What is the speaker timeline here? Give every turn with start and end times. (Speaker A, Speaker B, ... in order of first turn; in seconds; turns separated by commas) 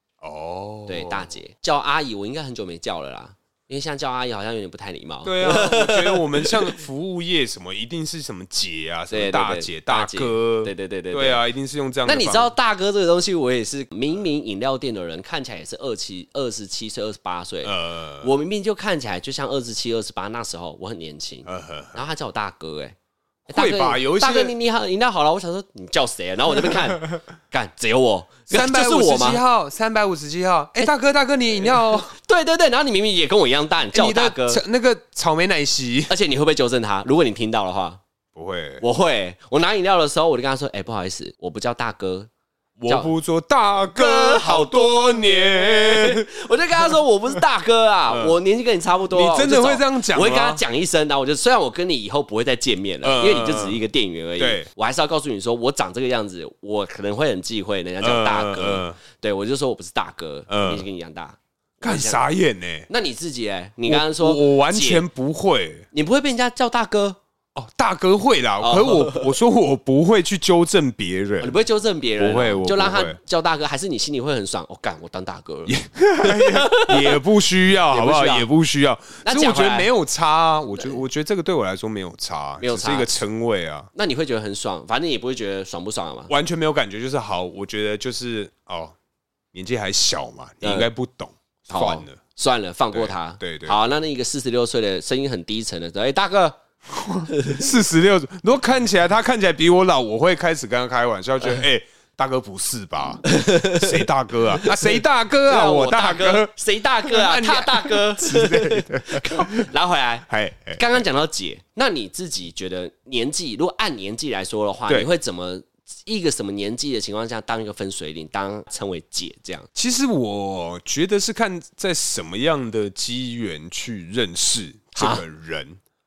Speaker A: 0.2-1.4, Speaker B: 0.9-6.8, Speaker A: 5.2-12.5, Speaker B: 9.1-11.4, Speaker B: 12.1-22.9, Speaker A: 17.6-18.3, Speaker A: 21.4-22.1, Speaker A: 23.5-24.5, Speaker B: 23.5-29.4, Speaker A: 28.5-32.1, Speaker B: 31.5-34.6, Speaker A: 33.9-36.1, Speaker B: 36.1-38.0, Speaker A: 38.4-38.9, Speaker B: 38.8-42.3, Speaker A: 42.8-46.9, Speaker B: 43.8-62.2, Speaker A: 48.1-48.4, Speaker A: 49.1-50.6, Speaker A: 53.0-53.8, Speaker A: 54.4-54.7, Speaker A: 58.0-59.0, Speaker A: 60.5-60.9, Speaker A: 61.8-62.9, Speaker B: 62.9-65.0, Speaker A: 63.9-65.9, Speaker B: 65.9-67.2, Speaker A: 67.5-71.6, Speaker B: 68.6-69.3, Speaker B: 71.4-77.2, Speaker A: 72.2-73.2, Speaker A: 75.7-83.9, Speaker B: 77.9-78.5, Speaker B: 79.2-79.9, Speaker B: 82.6-83.2, Speaker B: 83.9-86.3, Speaker A: 86.3-88.9, Speaker A: 89.5-92.2, Speaker B: 90.6-90.9, Speaker B: 91.7-96.6, Speaker A: 92.9-93.8, Speaker A: 96.9-109.7, Speaker B: 97.3-97.7, Speaker B: 103.3-104.0, Speaker B: 104.6-119.7, Speaker A: 110.3-111.0, Speaker A: 119.8-125.8, Speaker B: 125.0-125.2